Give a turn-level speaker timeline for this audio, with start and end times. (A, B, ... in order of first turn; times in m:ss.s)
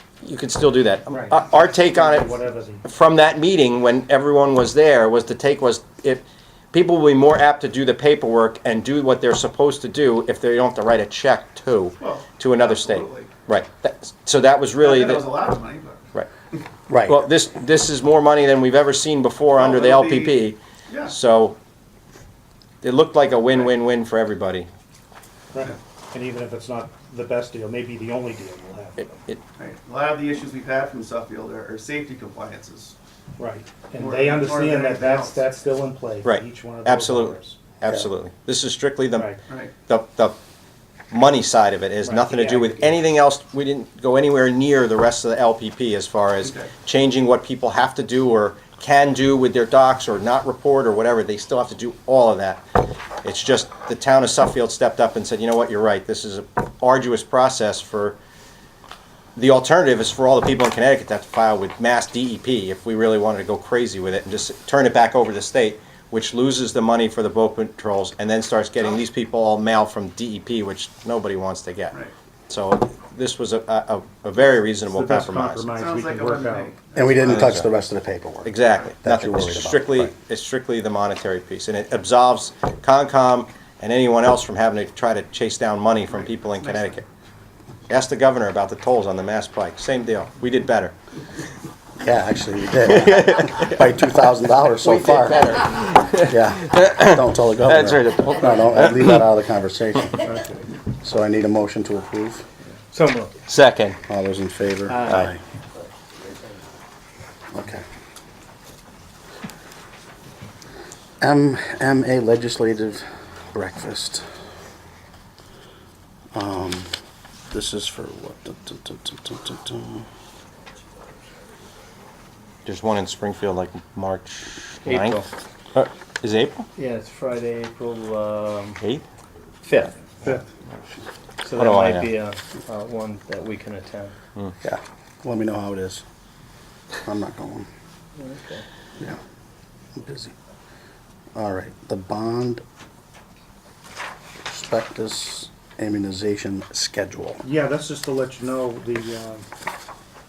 0:00.2-0:15.4 A
0:01.1-0:02.8 B
0:12.0-0:13.3 C
0:14.8-0:16.0 C
0:16.9-0:17.3 D
0:17.0-0:21.6 A
0:19.5-0:21.2 C
0:22.8-0:24.7 A
0:25.5-0:29.2 B
0:29.6-0:32.9 C
0:33.4-0:37.6 B
0:34.0-0:35.5 C
0:36.2-0:39.3 A
0:39.1-0:39.4 B
0:39.5-0:39.7 C
0:39.9-0:40.4 A
0:41.1-0:58.2 A
0:42.0-0:43.0 B
0:46.4-0:46.7 C
0:59.4-1:12.0 A
1:12.5-1:15.7 A
1:14.9-1:16.8 B
1:15.7-1:17.6 C
1:17.0-1:20.1 D
1:17.2-1:17.7 A
1:18.4-1:27.0 A
1:26.1-1:27.0 C
1:27.9-1:30.9 A
1:32.0-1:35.6 D
1:32.9-1:33.7 A
1:34.8-1:39.2 A
1:35.0-1:36.1 E
1:36.2-1:40.2 D
1:40.2-1:40.7 B
1:41.0-1:42.4 D
1:42.9-1:43.4 E
1:43.5-1:44.0 A
1:44.1-1:45.4 D
1:44.9-1:45.3 E
1:45.0-1:45.3 A
1:47.5-1:47.8 D
1:51.2-1:54.3 D
1:56.3-1:56.9 D
1:57.5-2:00.1 D
2:02.6-2:05.2 A
2:04.8-2:05.3 E
2:05.7-2:06.6 A
2:06.8-2:08.8 E
2:09.6-2:10.3 A
2:11.4-2:14.2 E
2:11.6-2:12.1 A
2:14.6-2:16.0 D
2:17.0-2:17.7 D
2:18.2-2:18.6 E
2:19.9-2:20.3 D
2:21.3-2:22.6 D
2:24.4-2:27.4 D
2:27.4-2:29.4 B